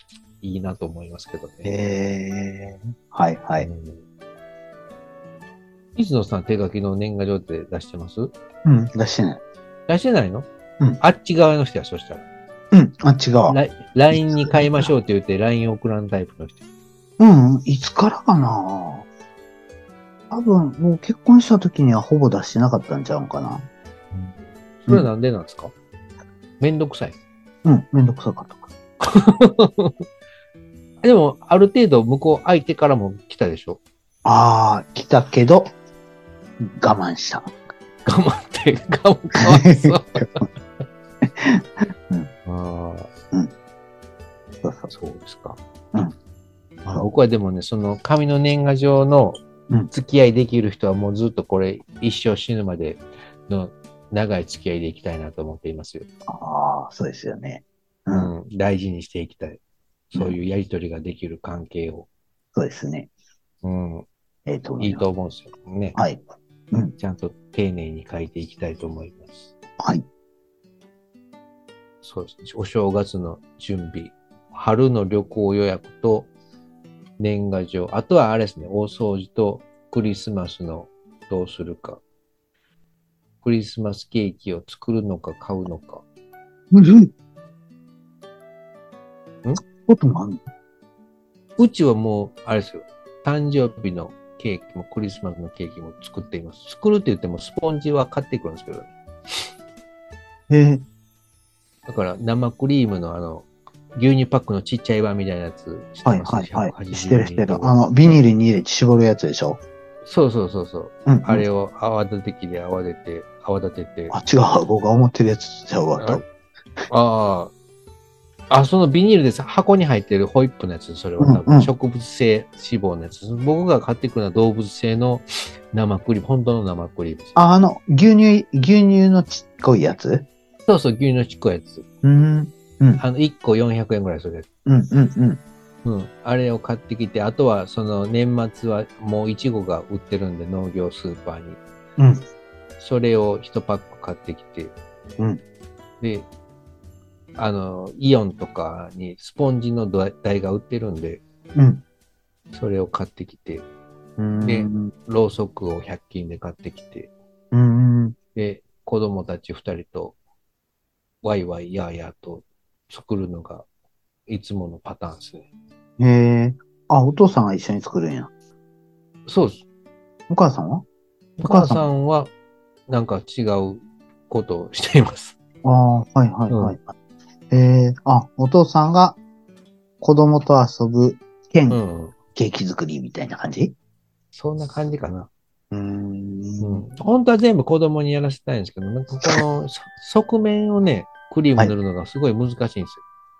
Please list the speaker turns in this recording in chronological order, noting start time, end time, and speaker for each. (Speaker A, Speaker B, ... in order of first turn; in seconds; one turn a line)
Speaker A: 0.4-1.7
Speaker B: 1.6-3.7
Speaker A: 3.6-4.0
Speaker A: 6.0-8.3
Speaker B: 8.6-9.4
Speaker A: 9.9-10.5
Speaker A: 11.0-12.2
Speaker B: 12.7-13.6
Speaker A: 13.5-16.6
Speaker B: 14.1-14.9
Speaker B: 17.2-19.1
Speaker B: 20.3-23.6
Speaker A: 24.1-25.7
Speaker A: 26.6-27.2
Speaker B: 27.6-28.7
Speaker A: 29.0-29.9
Speaker A: 31.0-33.8
Speaker B: 34.2-35.7
Speaker B: 36.6-37.5
Speaker A: 38.0-40.5
Speaker B: 39.4-40.3
Speaker B: 41.3-42.3
Speaker A: 42.5-43.1
Speaker B: 44.6-44.9
Speaker A: 44.9-45.6
Speaker A: 46.9-49.4
Speaker A: 49.9-56.1
Speaker B: 56.3-58.3
Speaker A: 58.1-59.6
Speaker A: 60.1-62.1
Speaker B: 62.5-63.1
Speaker A: 63.6-64.1
Speaker B: 64.5-65.0
Speaker A: 64.8-66.0
Speaker A: 67.0-69.5
Speaker A: 72.0-76.3
Speaker A: 77.2-82.0
Speaker A: 83.4-86.0
Speaker B: 86.7-87.1
Speaker B: 89.7-90.4
Speaker A: 91.6-99.4
Speaker B: 100.5-100.8
Speaker A: 101.9-108.2
Speaker B: 106.0-109.6
Speaker A: 110.0-114.2
Speaker B: 111.0-111.4
Speaker B: 114.1-116.2
Speaker A: 116.0-116.2
Speaker A: 116.9-117.5
Speaker A: 118.5-127.3
Speaker B: 121.2-121.7
Speaker B: 127.3-130.3
Speaker A: 130.7-131.8
Speaker B: 132.0-133.0
Speaker A: 133.0-134.5
Speaker B: 134.7-135.4
Speaker A: 135.8-141.6
Speaker B: 142.0-142.2
Speaker A: 142.8-144.7
Speaker A: 146.0-146.3
Speaker A: 147.4-151.2
Speaker B: 151.5-151.8
Speaker A: 152.5-153.7
Speaker B: 154.2-154.9
Speaker A: 154.4-157.1
Speaker B: 157.5-158.2
Speaker A: 158.3-160.2
Speaker A: 161.2-163.7
Speaker A: 164.3-165.4
Speaker B: 166.0-168.3
Speaker A: 169.3-169.6
Speaker B: 170.3-170.8
Speaker A: 171.4-172.3
Speaker B: 171.4-171.8
Speaker A: 172.9-175.4
Speaker B: 175.6-176.9
Speaker A: 176.5-176.8
Speaker B: 177.5-179.2
Speaker B: 180.0-181.8
Speaker A: 181.7-182.2
Speaker B: 182.3-183.7
Speaker A: 184.3-185.3
Speaker B: 185.7-186.8
Speaker A: 186.6-193.0